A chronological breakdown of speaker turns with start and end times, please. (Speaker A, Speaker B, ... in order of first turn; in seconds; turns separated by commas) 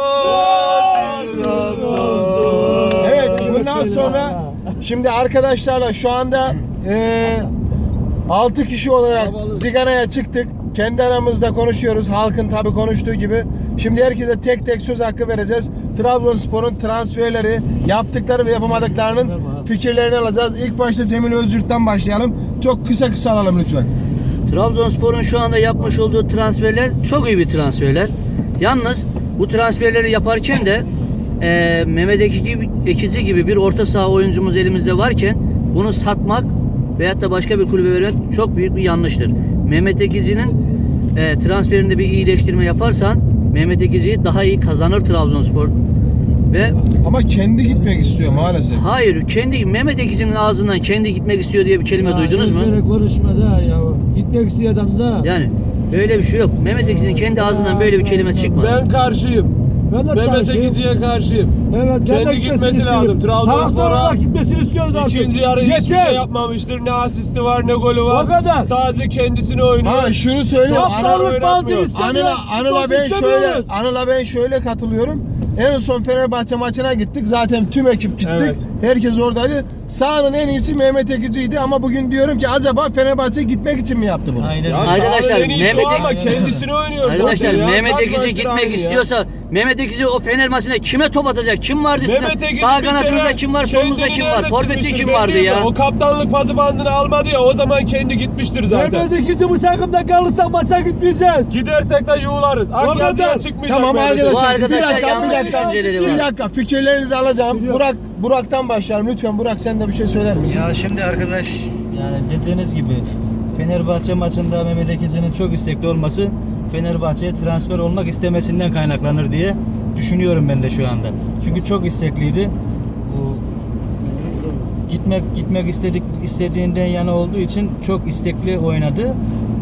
Speaker A: 0.2-3.0, Speaker B: 0.3-4.7, Speaker C: 1.2-2.4, Speaker D: 3.0-7.5, Speaker D: 8.3-23.9, Speaker A: 9.1-9.6, Speaker B: 18.7-19.7, Speaker E: 24.5-40.6, Speaker E: 41.1-45.8, Speaker E: 46.5-46.8, Speaker D: 47.0-48.9, Speaker B: 47.8-48.6, Speaker E: 48.7-52.7, Speaker B: 51.9-55.3, Speaker E: 55.2-58.7, Speaker B: 56.7-58.5, Speaker A: 58.4-59.5, Speaker B: 59.9-60.8, Speaker A: 60.1-64.2, Speaker B: 61.7-66.2, Speaker A: 64.9-71.9, Speaker B: 68.1-68.7, Speaker D: 69.8-71.3, Speaker B: 70.7-73.7, Speaker D: 71.9-84.5, Speaker A: 78.2-78.6, Speaker C: 84.4-86.7, Speaker A: 84.7-89.1, Speaker E: 84.8-86.1, Speaker E: 87.0-95.7, Speaker A: 92.0-99.1, Speaker B: 98.7-101.5, Speaker A: 101.5-104.6, Speaker B: 102.8-103.4, Speaker D: 103.7-110.6, Speaker E: 104.3-106.2, Speaker B: 104.7-106.2, Speaker B: 107.5-107.8, Speaker C: 110.5-122.5, Speaker C: 123.0-123.4, Speaker C: 124.9-129.2